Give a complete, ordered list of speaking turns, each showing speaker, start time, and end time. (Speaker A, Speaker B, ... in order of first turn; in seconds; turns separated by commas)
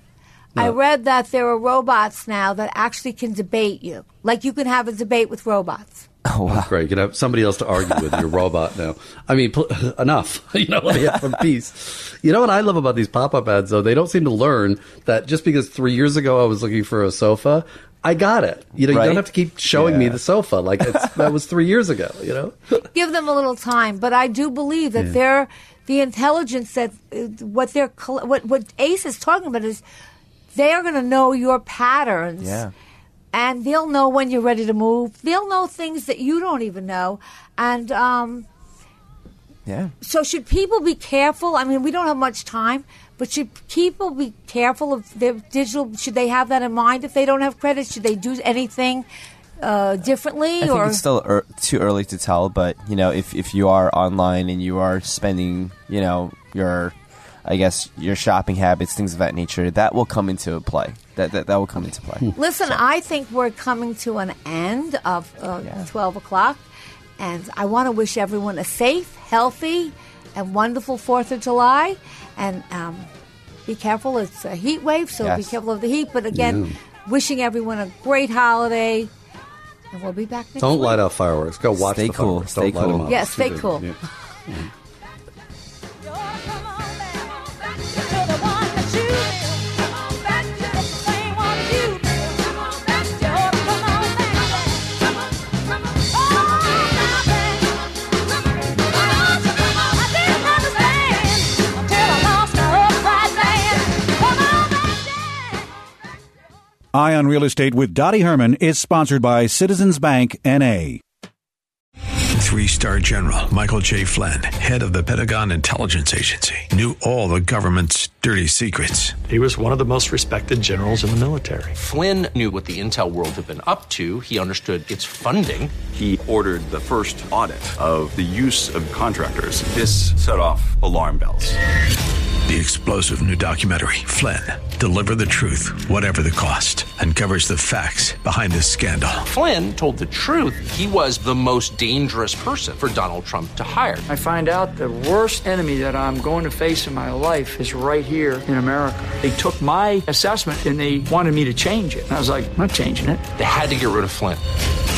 Speaker A: 0.6-6.1, Speaker B: 6.3-6.7, Speaker C: 6.5-22.9, Speaker B: 18.9-20.2, Speaker A: 22.9-29.8, Speaker A: 30.5-32.6, Speaker B: 32.4-32.7, Speaker A: 33.3-38.5, Speaker B: 39.7-39.9, Speaker A: 40.0-49.1, Speaker A: 49.6-51.0, Speaker B: 50.6-62.8, Speaker A: 62.3-66.6, Speaker A: 67.2-73.1, Speaker A: 73.7-79.1, Speaker B: 75.2-75.5, Speaker C: 76.3-76.8, Speaker A: 79.9-81.0, Speaker C: 80.6-84.7, Speaker B: 81.8-83.2, Speaker A: 83.1-83.9, Speaker D: 106.9-111.0, Speaker E: 112.4-119.2, Speaker F: 119.2-121.8, Speaker G: 121.8-125.8, Speaker H: 125.9-131.6, Speaker E: 132.5-139.2, Speaker G: 139.2-144.1, Speaker I: 144.1-153.2, Speaker G: 153.3-154.4